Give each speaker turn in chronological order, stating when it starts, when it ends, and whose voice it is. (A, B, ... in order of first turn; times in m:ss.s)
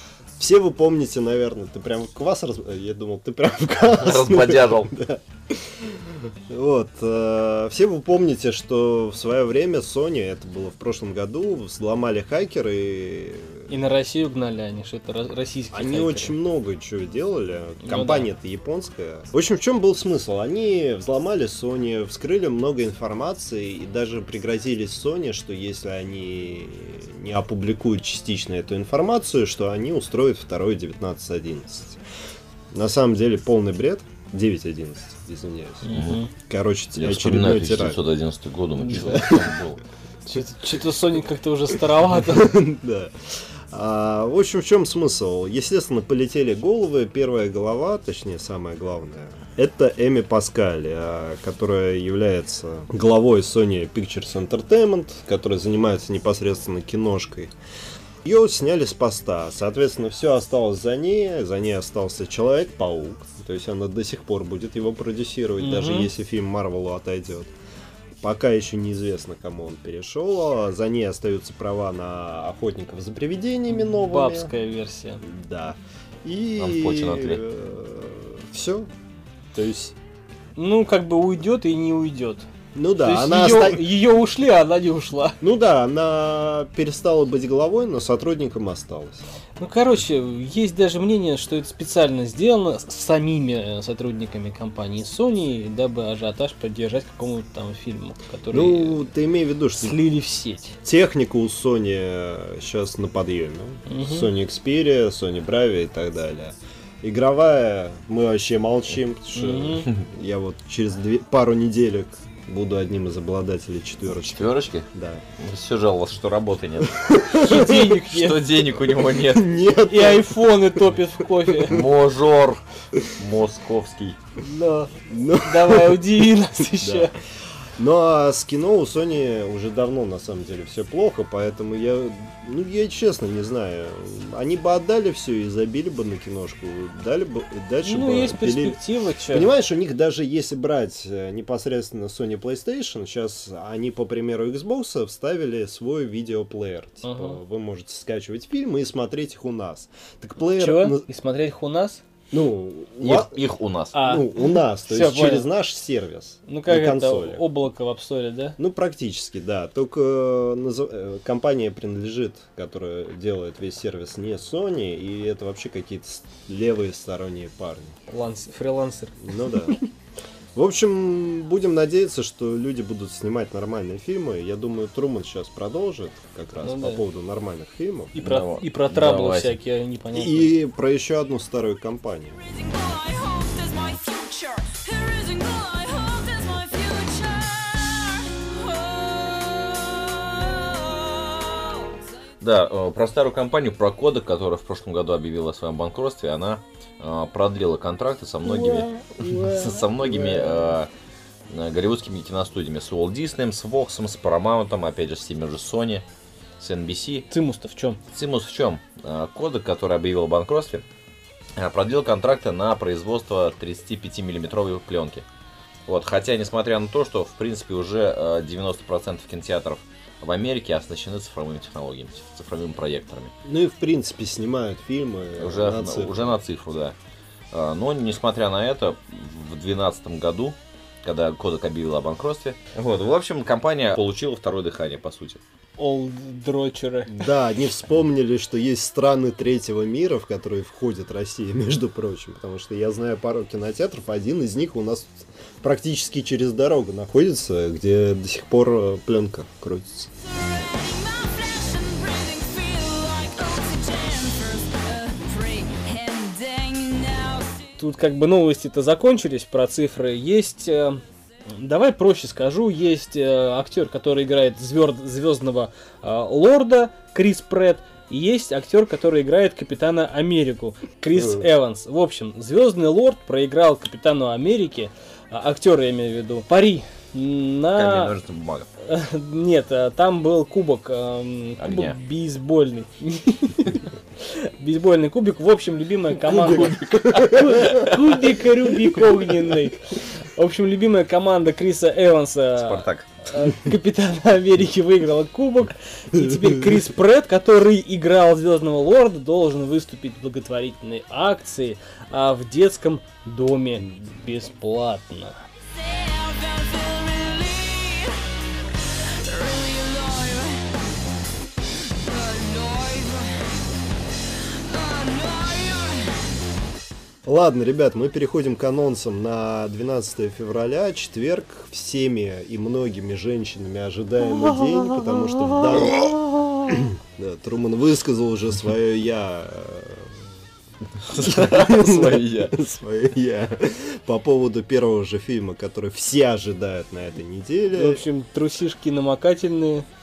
0:00.4-0:13.7 A
0:04.0-0:04.9 B
0:13.7-0:16.4 C
0:15.7-0:32.0 A
0:17.8-0:18.3 C
0:32.7-0:38.0 A
0:35.9-0:36.3 C
0:35.9-0:36.2 B
0:37.0-0:39.8 B
0:38.9-0:39.6 A
0:38.9-0:39.3 C
0:40.3-0:42.6 C
0:42.2-0:57.5 A
0:58.2-1:07.5 A
1:05.6-1:06.1 C
1:08.2-1:14.5 A
1:13.7-1:15.2 C
1:15.2-1:18.9 A
1:16.6-1:17.4 B
1:19.5-1:19.9 A
1:20.6-1:22.5 C
1:22.8-1:23.9 A
1:23.0-1:25.4 C
1:25.4-1:29.2 A
1:29.6-1:39.0 C
1:38.5-1:40.0 A
1:39.8-1:40.7 C
1:40.8-1:55.2 A
1:43.9-1:44.3 C
1:49.4-1:49.9 C
1:54.3-1:57.1 B
1:57.0-1:58.0 A
1:57.3-1:58.4 C
1:58.1-1:59.5 B
1:58.8-2:00.6 A
1:59.9-2:01.8 C
2:01.4-2:01.9 A
2:01.7-2:02.6 B
2:03.2-2:04.2 B
2:04.4-2:07.1 C
2:05.1-2:07.1 A
2:07.8-2:31.0 A
2:17.8-2:19.5 C
2:27.0-2:27.4 C
2:30.5-2:32.0 C
2:32.3-2:33.4 A
2:33.0-2:34.0 B
2:33.9-2:35.5 C
2:33.9-2:37.4 A
2:36.5-2:38.6 C
2:38.6-2:48.0 A
2:48.1-2:49.8 C
2:49.2-2:49.8 A
2:50.6-2:58.2 A
2:56.6-2:57.0 C
2:58.2-3:00.5 C
2:58.2-2:59.6 B
3:00.1-3:02.4 A
3:02.4-3:12.0 D
3:12.4-3:20.9 B
3:18.4-3:20.8 C
3:21.5-3:26.0 B
3:26.6-3:27.3 B
3:27.3-3:28.0 C
3:28.1-3:30.8 B
3:31.6-3:35.2 B
3:35.9-3:43.3 B
3:43.4-3:46.3 A
3:45.4-3:47.0 B
3:47.5-3:55.4 B
3:55.8-3:57.2 C
3:57.1-4:10.1 A
4:10.2-4:17.6 D
4:17.8-4:38.2 C
4:31.2-4:31.4 A
4:37.7-4:38.7 B
4:38.8-5:05.4 C
4:41.6-4:42.0 B
4:46.5-4:47.6 A
4:46.5-4:46.9 B
4:52.6-4:53.1 B
5:05.7-5:08.2 D
5:08.9-5:10.8 D
5:11.9-5:13.6 D
5:14.2-5:16.3 D
5:17.2-5:26.2 A
5:25.8-5:26.2 B
5:26.7-5:30.2 A
5:31.1-5:32.6 B
5:31.1-5:38.0 A
5:37.7-5:39.9 C